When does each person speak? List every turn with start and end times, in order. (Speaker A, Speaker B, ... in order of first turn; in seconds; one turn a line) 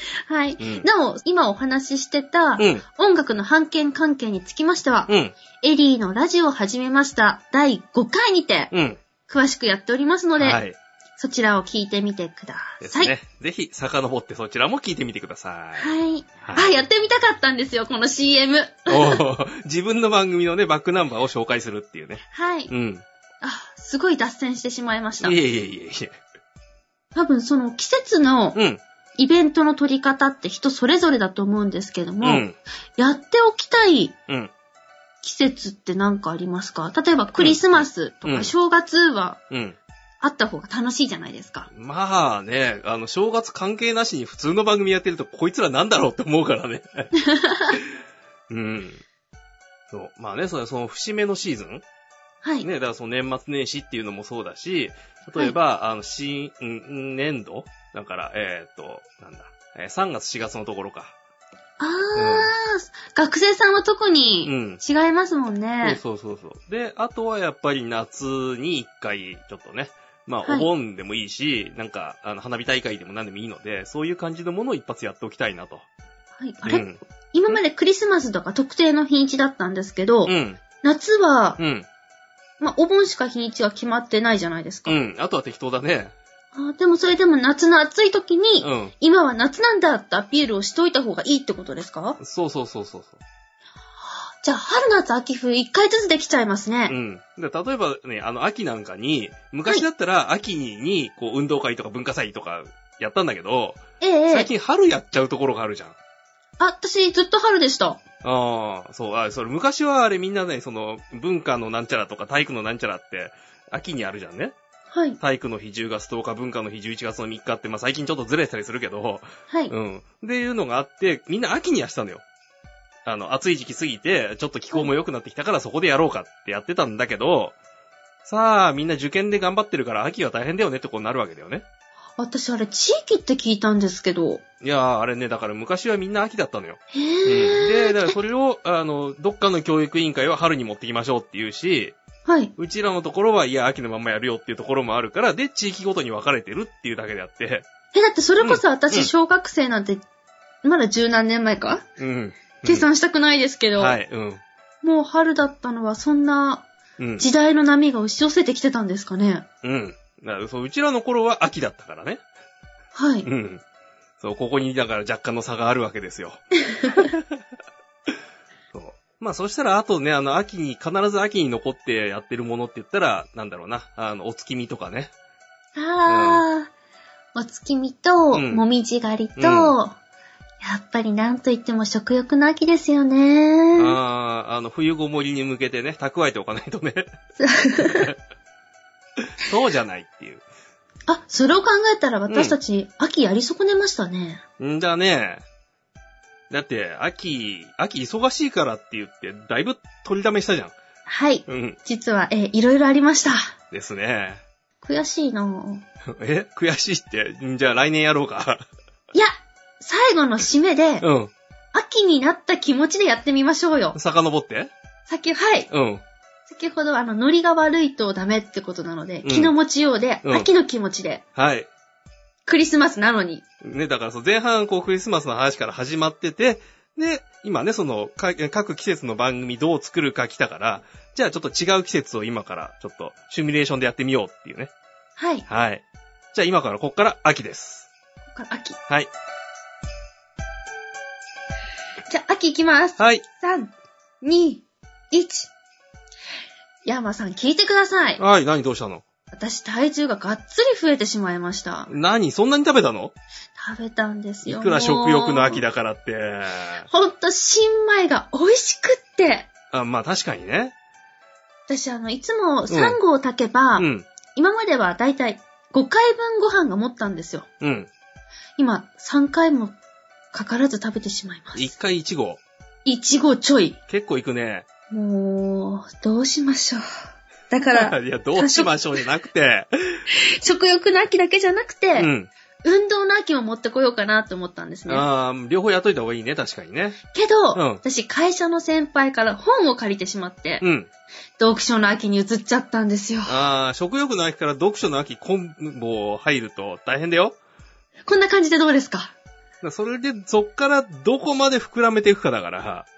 Speaker A: 0.3-8.7
Speaker B: 0.6-0.9
Speaker B: 2.6-2.8
Speaker B: 5.1-5.3
Speaker B: 8.7-9.0
Speaker A: 9.3-10.6
Speaker B: 10.4-10.8
Speaker A: 11.2-13.1
Speaker B: 12.8-15.9
Speaker A: 15.8-19.2
Speaker B: 16.4-16.8
Speaker B: 18.9-23.0
Speaker A: 22.3-22.7
Speaker A: 23.4-25.4
Speaker B: 25.2-26.1
Speaker A: 27.1-28.6
Speaker B: 28.6-28.8
Speaker A: 29.2-32.5
Speaker B: 32.2-32.6
Speaker A: 33.0-34.1
Speaker A: 35.2-39.4
Speaker B: 37.4-38.5
Speaker B: 39.5-39.8
Speaker A: 40.2-41.7
Speaker B: 41.7-47.1
Speaker A: 47.2-47.8
Speaker B: 48.5-49.0
Speaker B: 49.9-51.8
Speaker A: 52.4-52.7
Speaker B: 52.6-61.1
Speaker A: 61.8-66.0
Speaker B: 62.1-62.5
Speaker B: 64.5-64.8
Speaker B: 65.8-75.8
Speaker A: 70.4-70.7
Speaker A: 76.4-81.6
Speaker B: 76.7-77.6
Speaker B: 80.3-80.6
Speaker B: 81.6-81.9
Speaker A: 82.6-85.0
Speaker B: 84.9-86.1
Speaker A: 86.5-92.2
Speaker B: 88.6-88.9
Speaker B: 92.2-93.2
Speaker A: 94.4-97.0
Speaker B: 96.9-106.0
Speaker A: 104.0-104.5
Speaker A: 106.6-108.0
Speaker B: 108.2-114.5
Speaker A: 114.9-115.2
Speaker B: 115.2-122.2
Speaker B: 123.0-127.5
Speaker B: 128.2-131.7
Speaker A: 132.2-134.4
Speaker B: 134.6-142.0
Speaker A: 136.9-138.2
Speaker A: 142.3-142.5
Speaker B: 142.6-147.7
Speaker A: 147.9-150.0
Speaker B: 148.4-149.1
Speaker A: 150.6-151.8
Speaker B: 152.0-152.9
Speaker A: 152.7-154.0
Speaker B: 153.8-154.4
Speaker A: 154.8-156.7
Speaker B: 157.0-157.3
Speaker A: 157.2-159.5
Speaker B: 159.6-162.2
Speaker A: 162.9-163.3
Speaker B: 163.2-163.6
Speaker B: 164.2-166.4
Speaker A: 166.7-167.1
Speaker B: 166.9-167.2
Speaker B: 168.7-175.1
Speaker A: 175.8-176.7
Speaker B: 176.1-176.4
Speaker A: 177.3-179.9
Speaker B: 178.3-178.6
Speaker B: 179.4-179.8
Speaker A: 180.6-184.0
Speaker B: 183.8-187.1
Speaker A: 187.4-188.1
Speaker B: 187.8-188.2
Speaker B: 189.4-190.4
Speaker A: 191.1-194.4
Speaker B: 192.3-192.6
Speaker B: 194.6-195.4
Speaker B: 196.5-200.7
Speaker A: 201.1-203.5
Speaker B: 201.5-201.8
Speaker B: 203.7-204.4
Speaker A: 204.8-205.8
Speaker B: 206.1-208.6
Speaker A: 209.1-211.1
Speaker B: 211.0-211.3
Speaker A: 211.7-214.0
Speaker B: 213.9-214.7
Speaker A: 215.1-215.7
Speaker B: 215.7-216.0
Speaker A: 216.5-221.2
Speaker B: 219.2-219.5
Speaker B: 221.4-221.7
Speaker A: 222.5-223.4
Speaker B: 223.6-234.7
Speaker A: 235.2-235.5
Speaker B: 235.5-235.8
Speaker B: 236.3-237.9
Speaker A: 238.3-238.8
Speaker A: 242.1-245.5
Speaker B: 243.0-243.2
Speaker A: 246.8-248.2
Speaker B: 248.2-249.0
Speaker A: 249.3-251.9
Speaker B: 251.9-253.1
Speaker A: 253.6-255.6
Speaker B: 254.4-256.9
Speaker A: 256.9-259.5
Speaker B: 259.7-260.7
Speaker A: 261.7-267.5
Speaker B: 262.7-263.0
Speaker B: 263.8-264.1
Speaker B: 267.6-267.9
Speaker A: 268.6-269.8
Speaker A: 270.3-271.7
Speaker B: 271.6-272.4
Speaker A: 272.9-273.8
Speaker B: 273.9-274.7
Speaker A: 274.9-276.8
Speaker A: 277.5-278.7
Speaker B: 277.7-280.0
Speaker A: 280.1-282.1
Speaker B: 282.0-282.3
Speaker A: 282.6-285.1
Speaker B: 284.9-287.0
Speaker A: 287.1-290.6
Speaker B: 287.5-287.8
Speaker B: 290.6-290.9
Speaker A: 291.4-293.4
Speaker B: 293.3-297.4
Speaker A: 298.1-299.1
Speaker B: 299.6-302.9